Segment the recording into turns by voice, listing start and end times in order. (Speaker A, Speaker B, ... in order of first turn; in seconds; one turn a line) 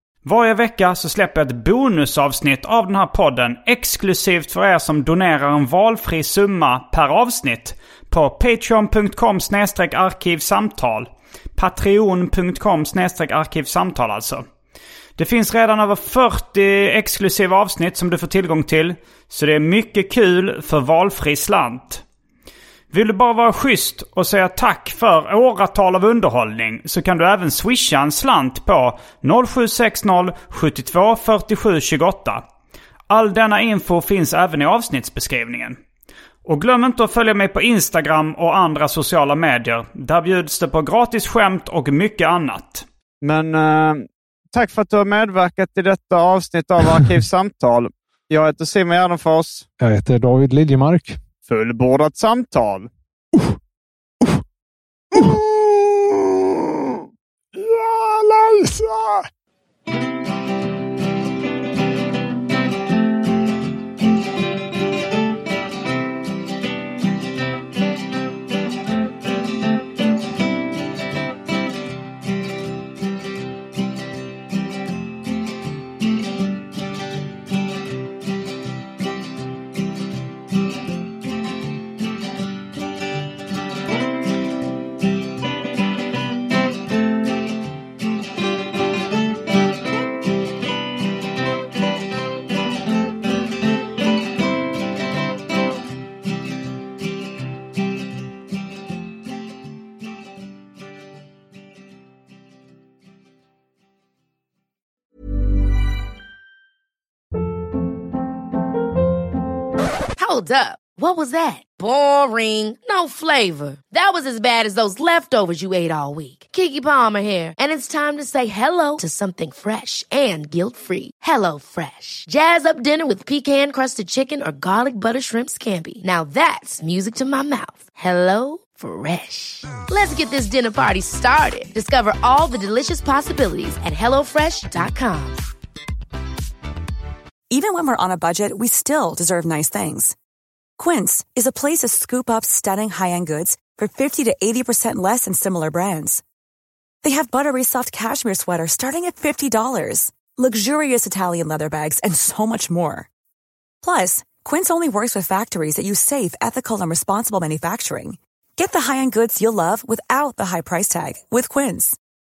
Speaker A: 0.2-14.4
Speaker A: 15.2-22.0
Speaker A: 22.9-32.5
Speaker A: 33.1-35.8
Speaker A: 36.5-42.9
Speaker B: 43.2-49.7
Speaker C: 49.8-51.2
Speaker B: 51.5-52.9
Speaker C: 55.1-57.0
Speaker C: 57.6-59.2
Speaker D: 110.2-135.4
Speaker E: 137.5-140.2
Speaker E: 140.8-146.2
Speaker E: 147.0-153.1
Speaker E: 153.8-162.0